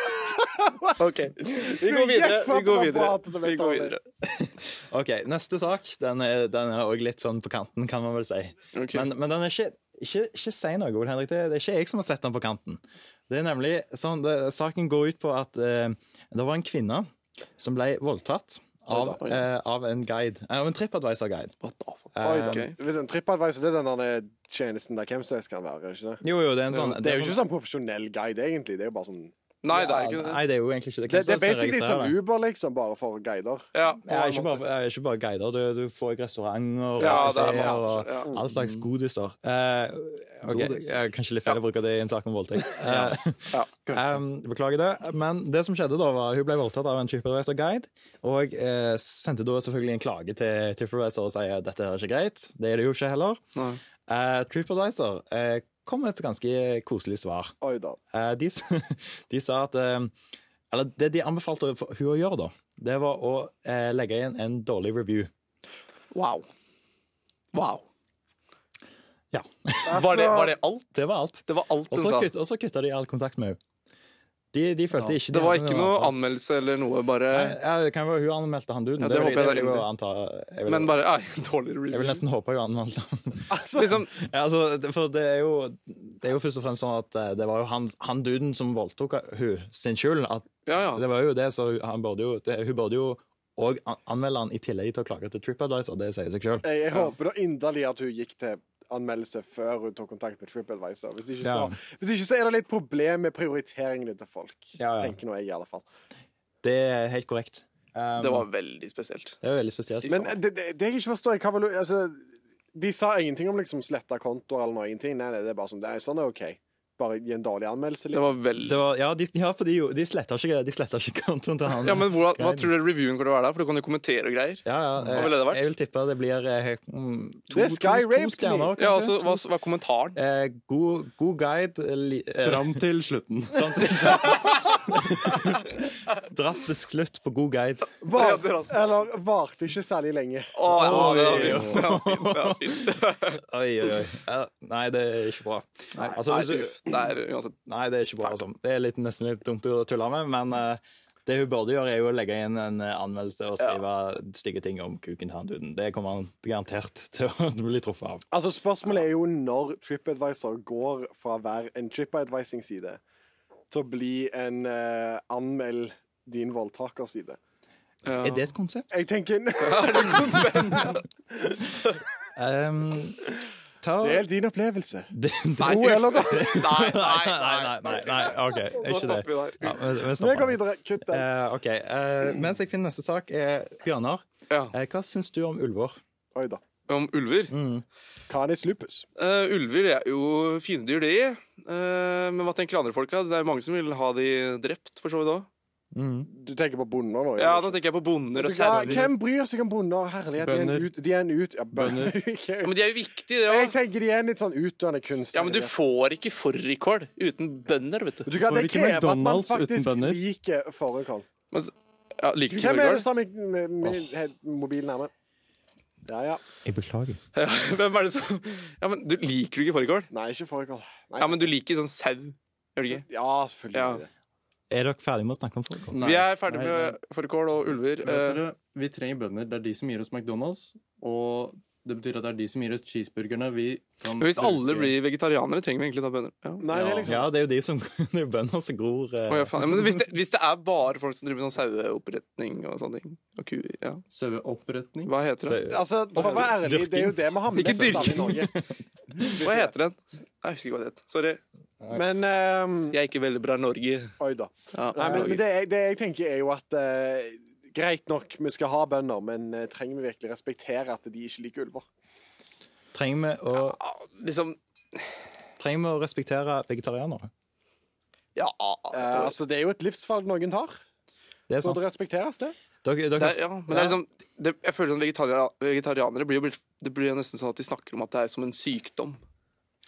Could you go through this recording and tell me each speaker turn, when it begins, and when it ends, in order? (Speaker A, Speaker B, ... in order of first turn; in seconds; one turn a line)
Speaker A: 0.6-0.9
Speaker B: 1.0-4.0
Speaker A: 1.5-4.0
Speaker C: 4.2-21.5
Speaker B: 8.7-9.1
Speaker B: 19.0-19.4
Speaker B: 21.6-22.7
Speaker C: 22.1-22.7
Speaker A: 22.2-29.3
Speaker C: 26.2-27.4
Speaker B: 29.6-30.4
Speaker C: 29.7-32.2
Speaker A: 31.1-34.6
Speaker B: 33.7-34.0
Speaker C: 34.0-53.4
Speaker B: 37.0-38.3
Speaker A: 37.0-38.4
Speaker D: 38.5-38.9
Speaker D: 40.5-41.0
Speaker D: 42.8-43.2
Speaker D: 43.8-44.2
Speaker C: 54.1-57.5
Speaker A: 57.6-58.0
Speaker C: 58.1-60.1
Speaker C: 60.7-65.3
Speaker B: 66.1-66.5
Speaker B: 67.5-67.8
Speaker C: 69.3-70.3
Speaker A: 69.9-70.5
Speaker B: 69.9-72.3
Speaker C: 70.9-73.6
Speaker C: 74.5-76.1
Speaker B: 75.2-77.6
Speaker C: 77.3-80.9
Speaker B: 79.0-79.9
Speaker B: 80.7-82.2
Speaker C: 81.9-96.6
Speaker A: 83.5-84.0
Speaker B: 83.8-84.1
Speaker B: 90.7-91.0
Speaker A: 96.6-105.8
Speaker C: 101.4-101.8
Speaker C: 104.8-105.1
Speaker C: 106.6-108.5
Speaker B: 108.2-109.4
Speaker C: 109.4-110.3
Speaker A: 110.1-118.3
Speaker B: 118.1-118.8
Speaker C: 118.6-122.7
Speaker B: 121.8-125.6
Speaker C: 124.6-129.4
Speaker D: 125.0-125.3
Speaker A: 127.5-128.7
Speaker B: 128.8-130.2
Speaker C: 130.1-132.8
Speaker D: 132.4-134.3
Speaker C: 133.5-137.9
Speaker A: 138.0-140.7
Speaker B: 138.1-138.9
Speaker B: 140.5-143.4
Speaker D: 140.7-141.8
Speaker C: 140.7-147.0
Speaker B: 146.0-147.5
Speaker C: 147.6-158.2
Speaker A: 158.3-163.0
Speaker A: 163.7-167.4
Speaker B: 168.0-168.5
Speaker C: 168.2-168.9
Speaker A: 168.9-171.0
Speaker B: 169.6-171.0
Speaker C: 172.3-173.2
Speaker C: 173.8-174.3
Speaker A: 174.0-176.7
Speaker C: 175.1-186.0
Speaker B: 175.6-179.7
Speaker A: 180.1-181.2
Speaker A: 186.3-186.6
Speaker B: 186.9-187.5
Speaker C: 187.5-187.8
Speaker A: 188.3-189.1
Speaker B: 189.2-195.5
Speaker C: 195.9-196.3
Speaker A: 196.3-197.8
Speaker B: 197.4-199.1
Speaker A: 198.3-202.8
Speaker D: 198.7-199.1
Speaker D: 200.4-200.9
Speaker D: 201.7-202.2
Speaker B: 202.6-203.7
Speaker A: 203.4-205.7
Speaker B: 205.3-208.3
Speaker A: 208.2-211.2
Speaker D: 208.4-210.2
Speaker B: 211.5-213.1
Speaker A: 212.5-215.1
Speaker A: 216.1-216.4
Speaker C: 216.6-217.2
Speaker B: 217.3-220.1
Speaker A: 220.1-221.5
Speaker B: 221.2-223.0
Speaker A: 222.8-224.1
Speaker B: 223.7-224.0
Speaker C: 224.7-226.0
Speaker D: 225.9-227.0
Speaker B: 226.0-228.4
Speaker D: 228.0-234.9
Speaker B: 234.2-237.0
Speaker A: 236.6-237.3
Speaker C: 237.0-240.0
Speaker B: 239.3-244.0
Speaker D: 244.1-245.1
Speaker B: 245.0-245.7
Speaker C: 245.4-249.2
Speaker A: 245.7-248.5
Speaker B: 246.2-246.5
Speaker B: 247.5-248.5
Speaker A: 249.2-249.7
Speaker B: 249.2-251.4
Speaker A: 251.9-252.9
Speaker B: 252.9-254.1
Speaker A: 254.2-261.9
Speaker B: 254.7-255.4
Speaker C: 262.9-263.8
Speaker B: 263.6-264.6
Speaker C: 265.6-267.3
Speaker B: 268.4-269.3
Speaker A: 268.9-270.8
Speaker C: 271.5-271.8
Speaker A: 271.6-272.5
Speaker C: 272.8-274.0
Speaker B: 273.2-279.2